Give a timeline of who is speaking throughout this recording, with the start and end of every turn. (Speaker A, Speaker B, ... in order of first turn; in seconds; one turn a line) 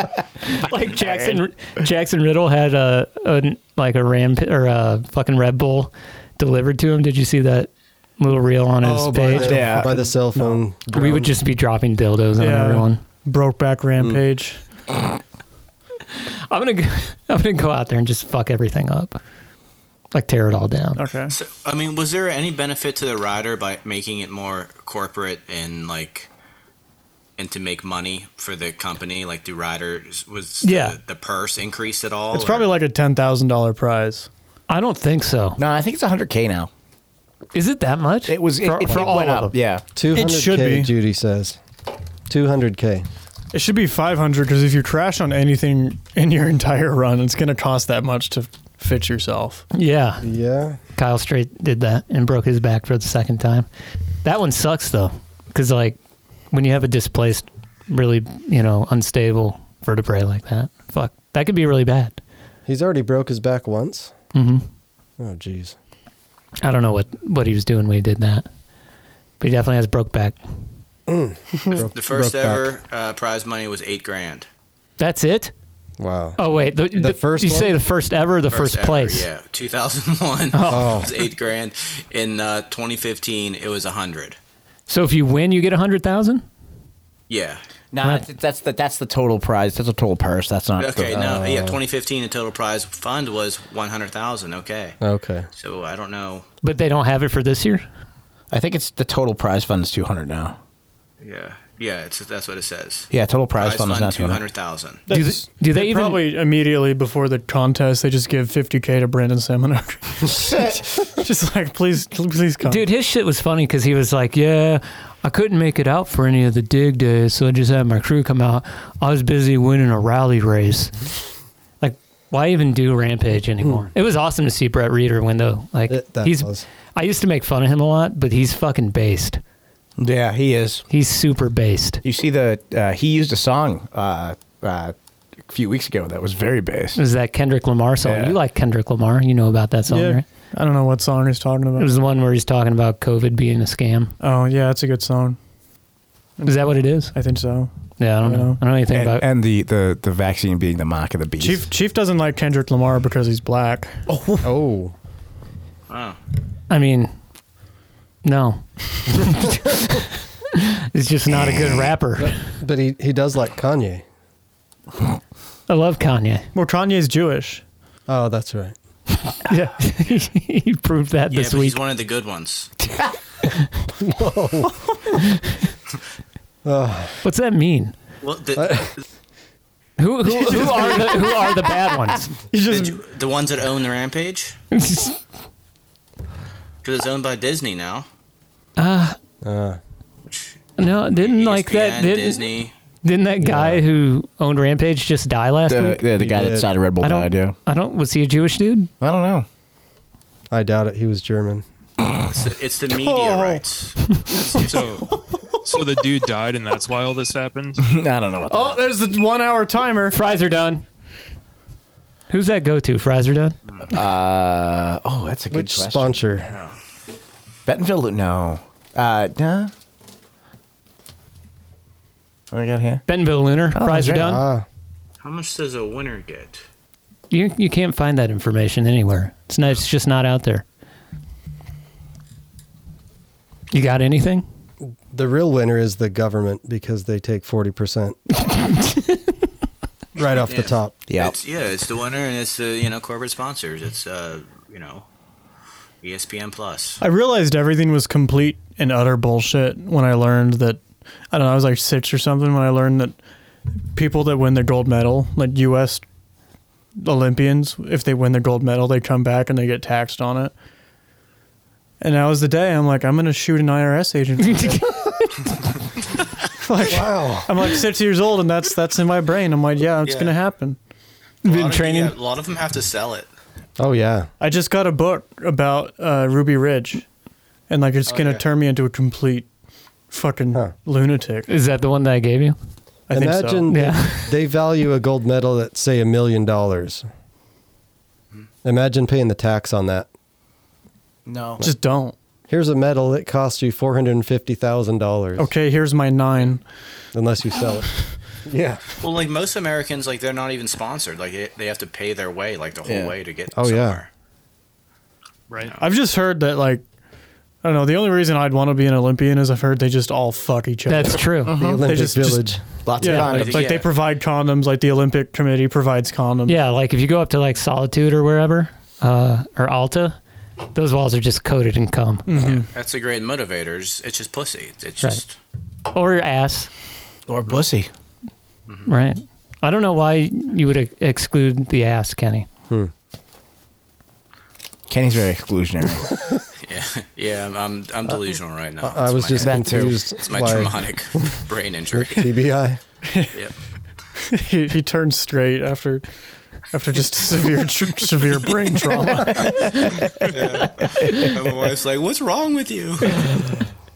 Speaker A: 0.5-9.5
Speaker B: 8.8-11.3
Speaker C: 9.4-10.0
Speaker D: 10.3-10.6
Speaker A: 10.9-13.0
Speaker D: 12.4-14.6
Speaker A: 16.5-19.2
Speaker A: 20.1-21.0
Speaker D: 20.9-21.3
Speaker E: 21.3-26.3
Speaker E: 27.4-32.7
Speaker A: 30.6-31.0
Speaker D: 32.3-34.3
Speaker A: 34.7-35.6
Speaker C: 35.6-36.7
Speaker A: 37.5-39.5
Speaker C: 38.3-39.8
Speaker B: 40.0-41.6
Speaker D: 40.1-40.9
Speaker B: 42.3-43.0
Speaker D: 43.5-49.6
Speaker A: 49.7-50.2
Speaker B: 50.2-50.8
Speaker A: 51.0-53.7
Speaker A: 54.2-56.0
Speaker A: 56.5-62.2
Speaker B: 62.6-64.1
Speaker A: 64.3-64.6
Speaker B: 65.2-65.8
Speaker A: 66.6-68.5
Speaker A: 69.4-70.4
Speaker B: 71.1-72.7
Speaker E: 71.9-74.5
Speaker A: 75.0-75.5
Speaker B: 76.0-76.4
Speaker A: 76.4-79.2
Speaker B: 76.9-77.8
Speaker E: 78.5-84.4
Speaker A: 80.5-81.0
Speaker B: 80.7-81.1
Speaker A: 84.9-86.4
Speaker E: 87.3-87.6
Speaker C: 87.9-91.2
Speaker E: 90.8-95.0
Speaker B: 91.1-91.8
Speaker B: 95.0-95.5
Speaker E: 95.5-96.5
Speaker A: 96.6-97.8
Speaker C: 98.5-100.6
Speaker E: 101.2-105.0
Speaker C: 103.1-104.4
Speaker D: 105.1-112.8
Speaker A: 105.1-106.2
Speaker A: 112.6-121.0
Speaker A: 121.8-129.4
Speaker B: 125.9-126.7
Speaker C: 130.0-130.8
Speaker A: 130.9-132.0
Speaker C: 132.0-134.9
Speaker C: 135.5-137.0
Speaker A: 136.9-140.2
Speaker C: 138.0-138.4
Speaker D: 139.9-141.9
Speaker A: 141.8-144.1
Speaker D: 144.2-145.4
Speaker D: 146.4-148.6
Speaker A: 146.4-147.1
Speaker A: 148.0-149.2
Speaker C: 148.9-151.6
Speaker D: 151.4-154.2
Speaker B: 154.4-154.9
Speaker E: 155.9-156.2
Speaker A: 156.7-157.1
Speaker A: 158.2-162.3
Speaker B: 162.2-164.0
Speaker A: 165.7-166.5
Speaker D: 166.5-167.6
Speaker B: 168.1-168.7
Speaker A: 169.3-171.8
Speaker E: 171.3-172.7
Speaker B: 174.0-174.8
Speaker B: 176.6-177.2
Speaker A: 177.2-177.9
Speaker E: 178.2-179.0
Speaker B: 178.6-178.9
Speaker A: 180.0-182.3
Speaker D: 180.3-181.4
Speaker D: 182.5-183.0
Speaker E: 182.7-184.6
Speaker A: 184.7-185.2
Speaker E: 186.8-188.1
Speaker A: 188.8-189.2
Speaker B: 189.4-189.8
Speaker E: 190.3-190.5
Speaker A: 190.8-192.4
Speaker E: 191.2-192.7
Speaker A: 193.0-196.0
Speaker B: 193.4-193.8
Speaker C: 195.7-197.5
Speaker B: 196.2-196.7
Speaker A: 197.0-198.9
Speaker C: 199.0-199.4
Speaker B: 200.5-201.6
Speaker E: 202.3-205.0
Speaker D: 202.9-203.6
Speaker F: 204.6-205.1
Speaker F: 205.6-207.8
Speaker C: 207.8-208.8
Speaker D: 208.5-210.2
Speaker A: 210.1-210.8
Speaker A: 212.3-213.6
Speaker C: 213.9-216.2
Speaker B: 215.5-216.5
Speaker E: 216.5-216.7
Speaker C: 217.7-219.7
Speaker C: 222.5-223.0
Speaker A: 223.1-224.4
Speaker C: 223.7-224.3
Speaker B: 224.1-224.7
Speaker E: 225.2-226.6
Speaker A: 227.3-230.6
Speaker A: 233.7-234.4
Speaker B: 234.8-238.2
Speaker B: 240.2-240.9
Speaker E: 240.4-245.0
Speaker C: 241.1-241.3
Speaker E: 246.0-247.0
Speaker D: 247.0-253.2
Speaker D: 253.9-256.0
Speaker D: 257.0-260.5
Speaker D: 262.0-265.1
Speaker A: 264.5-264.8
Speaker D: 266.6-270.8
Speaker B: 266.8-267.5
Speaker E: 270.0-270.3
Speaker E: 271.4-273.3
Speaker D: 271.4-272.1
Speaker B: 273.8-274.3
Speaker D: 274.4-277.0
Speaker D: 277.7-279.5
Speaker E: 278.1-278.4
Speaker D: 280.1-281.5
Speaker A: 281.5-282.6
Speaker D: 283.1-283.7
Speaker B: 283.1-287.1
Speaker A: 283.7-284.3
Speaker B: 288.6-290.1
Speaker C: 291.3-291.6
Speaker D: 291.6-292.1
Speaker B: 292.5-295.5
Speaker D: 295.4-296.6
Speaker B: 297.1-297.9
Speaker B: 298.4-298.8
Speaker E: 299.0-304.1
Speaker C: 302.9-303.1
Speaker B: 303.6-304.0
Speaker F: 305.5-305.8
Speaker D: 305.8-306.8
Speaker D: 307.6-316.6
Speaker A: 310.9-311.5
Speaker C: 311.4-311.9
Speaker B: 311.5-312.6
Speaker C: 312.8-313.6
Speaker E: 313.2-313.9
Speaker A: 316.4-320.2
Speaker A: 320.7-322.3
Speaker D: 322.3-322.7
Speaker E: 322.3-325.3
Speaker A: 325.9-326.7
Speaker C: 327.3-327.9
Speaker A: 328.9-332.5
Speaker C: 334.9-336.1
Speaker E: 336.6-342.3
Speaker B: 338.8-340.8
Speaker C: 339.4-339.9
Speaker B: 341.9-342.8
Speaker D: 343.1-343.3
Speaker D: 344.2-346.0
Speaker D: 346.7-349.7
Speaker E: 350.3-353.4